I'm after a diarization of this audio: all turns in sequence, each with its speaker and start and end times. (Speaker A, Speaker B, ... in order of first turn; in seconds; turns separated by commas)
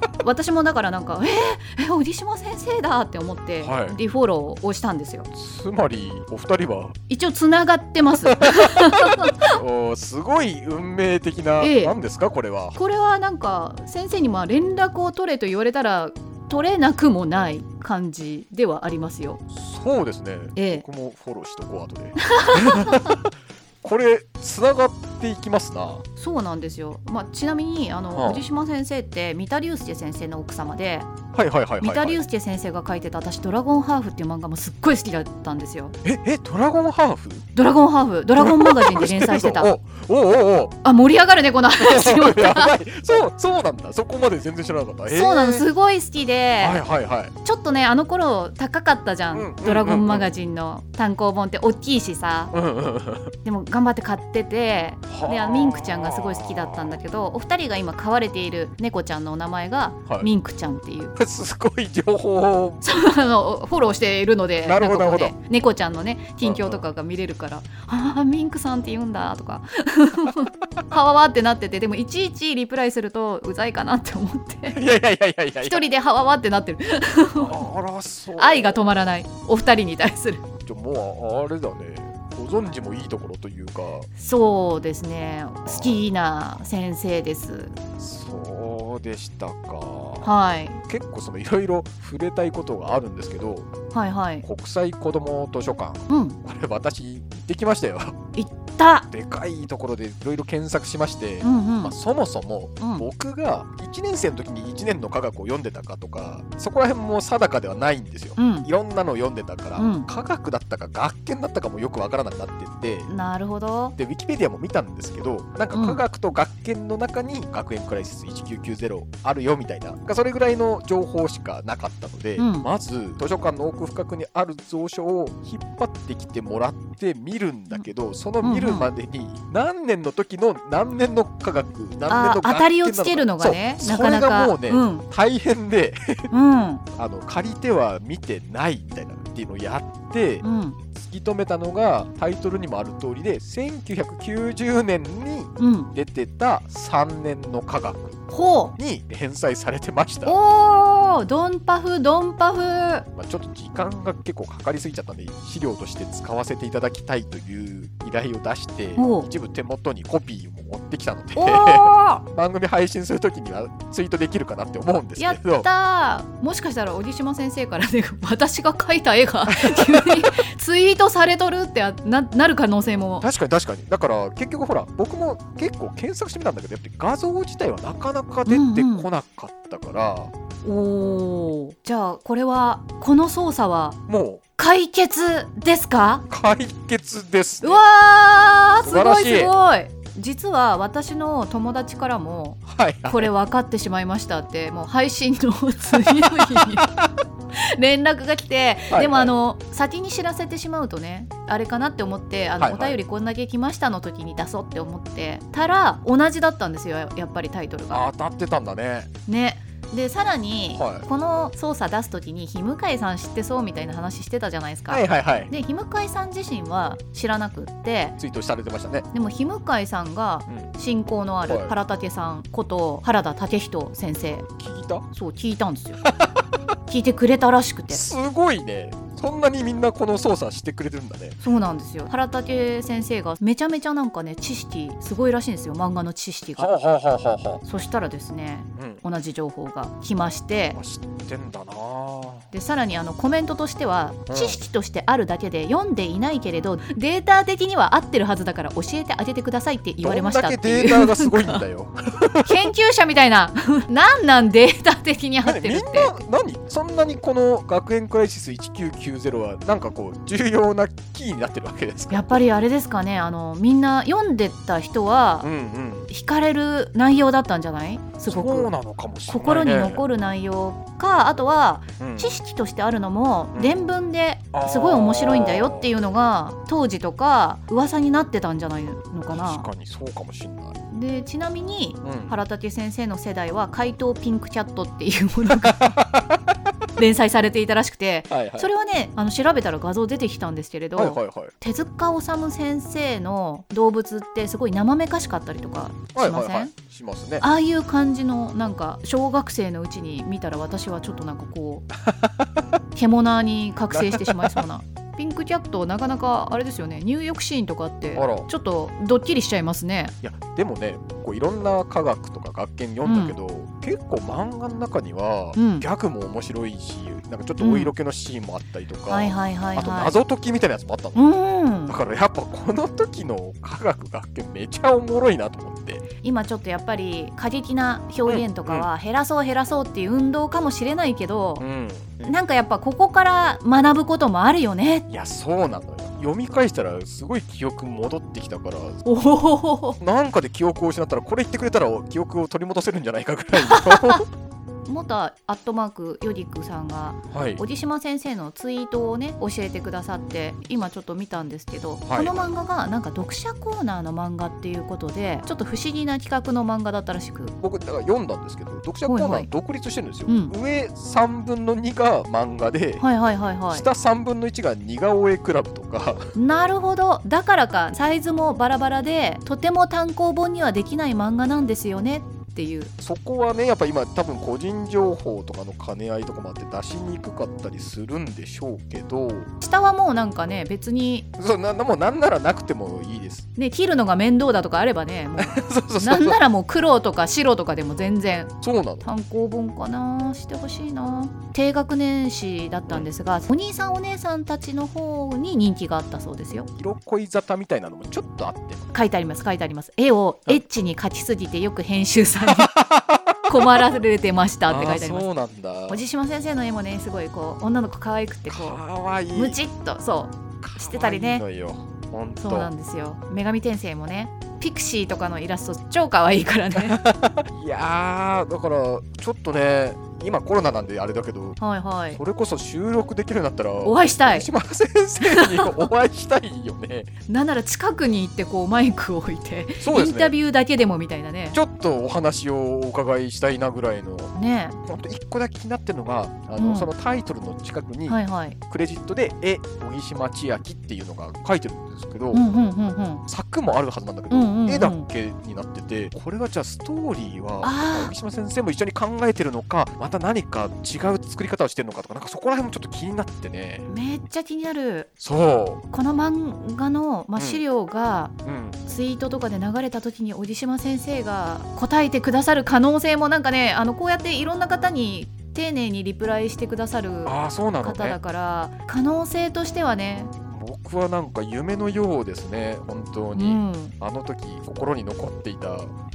Speaker A: 0.2-5.3, Speaker B: 3.6-4.0, Speaker B: 5.3-7.0, Speaker A: 7.1-9.6, Speaker B: 8.3-12.8, Speaker A: 11.6-12.0, Speaker A: 12.8-19.4, Speaker B: 19.5-23.3, Speaker A: 20.6-20.9, Speaker A: 22.2-23.2, Speaker B: 23.8-26.1, Speaker A: 26.2-31.1, Speaker B: 28.1-28.4, Speaker B: 31.3-32.2, Speaker A: 31.8-36.0, Speaker B: 36.0-37.5, Speaker A: 37.5-39.7, Speaker B: 38.4-40.8, Speaker A: 40.8-42.8, Speaker B: 41.8-45.7, Speaker A: 45.1-46.8, Speaker B: 46.6-47.3, Speaker A: 47.4-52.5, Speaker B: 49.3-50.3, Speaker B: 52.5-53.3, Speaker A: 53.4-61.2, Speaker B: 55.1-57.0, Speaker B: 61.2-62.8, Speaker A: 62.8-74.8, Speaker B: 64.6-65.3, Speaker B: 66.4-66.8, Speaker B: 74.7-75.8, Speaker A: 75.6-77.7, Speaker B: 77.4-79.0, Speaker A: 78.4-80.4, Speaker B: 80.6-84.1, Speaker A: 84.2-87.8, Speaker B: 85.7-86.0, Speaker B: 88.0-90.3, Speaker A: 90.2-90.8, Speaker B: 90.9-93.7, Speaker A: 93.9-94.5, Speaker B: 94.4-98.2, Speaker A: 96.1-96.4, Speaker A: 98.4-99.1, Speaker B: 99.1-113.1, Speaker A: 101.4-102.0, Speaker A: 102.8-103.1, Speaker A: 108.4-108.7, Speaker A: 109.8-110.1, Speaker A: 113.1-114.0, Speaker B: 114.0-136.3, Speaker A: 115.7-116.0, Speaker A: 122.4-122.7, Speaker A: 128.4-128.9, Speaker A: 132.1-135.0, Speaker A: 136.3-136.8, Speaker B: 136.9-140.4, Speaker A: 140.4-140.8, Speaker B: 140.9-148.2, Speaker A: 145.6-145.9, Speaker A: 148.3-148.7, Speaker B: 148.8-150.3, Speaker A: 150.2-153.1, Speaker B: 153.2-165.7, Speaker A: 159.0-159.3, Speaker A: 161.4-162.2, Speaker A: 165.2-173.3, Speaker B: 169.5-170.4, Speaker B: 173.2-180.3, Speaker A: 178.5-179.1, Speaker A: 180.6-184.0, Speaker B: 184.1-184.4, Speaker A: 184.6-186.2, Speaker B: 186.3-187.8, Speaker A: 187.6-196.9, Speaker B: 188.8-189.5, Speaker B: 192.7-193.3, Speaker B: 195.9-197.0, Speaker A: 197.5-208.1, Speaker B: 198.9-199.3, Speaker B: 202.6-203.0, Speaker B: 207.9-209.1, Speaker A: 209.3-218.2, Speaker B: 210.7-211.1, Speaker B: 214.9-215.5, Speaker B: 218.2-219.1, Speaker A: 219.1-224.5, Speaker B: 221.5-221.8, Speaker B: 224.6-225.1, Speaker A: 225.1-226.0, Speaker B: 226.0-226.5, Speaker A: 226.9-228.0, Speaker B: 227.9-231.4, Speaker A: 231.4-236.7, Speaker B: 236.6-237.6, Speaker A: 237.6-240.8, Speaker B: 238.8-239.0, Speaker B: 240.7-242.5, Speaker A: 242.5-251.6, Speaker B: 244.3-244.6, Speaker B: 250.0-252.7, Speaker A: 252.4-256.1, Speaker B: 255.4-262.4, Speaker A: 262.1-265.5, Speaker B: 265.4-266.1, Speaker A: 266.1-268.7, Speaker B: 268.2-270.0, Speaker A: 269.3-279.7, Speaker B: 272.0-272.4, Speaker B: 273.5-273.8, Speaker B: 274.5-275.9, Speaker B: 279.3-280.8, Speaker A: 280.9-285.9, Speaker B: 282.0-282.4, Speaker B: 285.5-286.4, Speaker A: 287.0-296.7, Speaker B: 288.3-288.7, Speaker B: 290.9-291.5, Speaker B: 296.1-297.4, Speaker A: 297.4-301.9, Speaker B: 302.1-302.6, Speaker A: 302.9-310.2, Speaker B: 303.9-304.6, Speaker B: 308.1-308.5, Speaker B: 310.2-321.2, Speaker A: 313.1-313.4, Speaker A: 315.6-315.9, Speaker A: 317.6-317.9, Speaker A: 319.1-320.2, Speaker A: 321.1-322.0, Speaker B: 321.9-326.1, Speaker A: 326.2-331.6, Speaker B: 328.3-328.9, Speaker B: 331.6-332.2, Speaker A: 332.2-335.1, Speaker B: 335.1-339.0, Speaker A: 339.1-340.0, Speaker B: 340.0-344.2, Speaker A: 343.6-344.2, Speaker A: 344.9-357.6, Speaker B: 347.3-347.6, Speaker B: 352.1-352.5, Speaker B: 357.6-363.0, Speaker A: 359.1-359.5, Speaker A: 360.3-360.5, Speaker A: 363.0-363.9, Speaker B: 363.7-366.3, Speaker A: 366.4-372.9, Speaker B: 373.0-379.5, Speaker A: 379.6-381.3, Speaker B: 381.4-383.5, Speaker A: 383.6-396.7, Speaker B: 385.4-386.4, Speaker B: 388.6-389.1, Speaker B: 396.7-398.9, Speaker A: 398.9-402.7, Speaker B: 402.5-403.7, Speaker A: 403.5-405.3, Speaker B: 404.7-406.0, Speaker A: 405.9-408.8, Speaker B: 408.5-409.6, Speaker A: 409.3-411.4, Speaker B: 410.6-412.7, Speaker A: 412.4-417.0, Speaker B: 416.9-421.6, Speaker A: 421.6-422.2, Speaker B: 422.1-427.1, Speaker A: 423.8-424.5, Speaker A: 425.2-425.8, Speaker A: 427.3-431.6, Speaker B: 429.8-430.4, Speaker B: 431.5-434.3, Speaker A: 434.3-434.8, Speaker B: 434.8-442.4, Speaker A: 436.6-436.9, Speaker A: 438.1-438.6, Speaker A: 442.3-443.2, Speaker B: 443.3-453.9, Speaker A: 444.3-445.1, Speaker A: 447.6-448.1, Speaker A: 453.9-455.1, Speaker B: 455.2-455.8, Speaker A: 455.9-458.3, Speaker B: 457.4-457.6, Speaker B: 458.4-458.8, Speaker A: 458.9-470.3, Speaker B: 467.3-468.2, Speaker B: 470.4-475.9, Speaker A: 473.4-473.9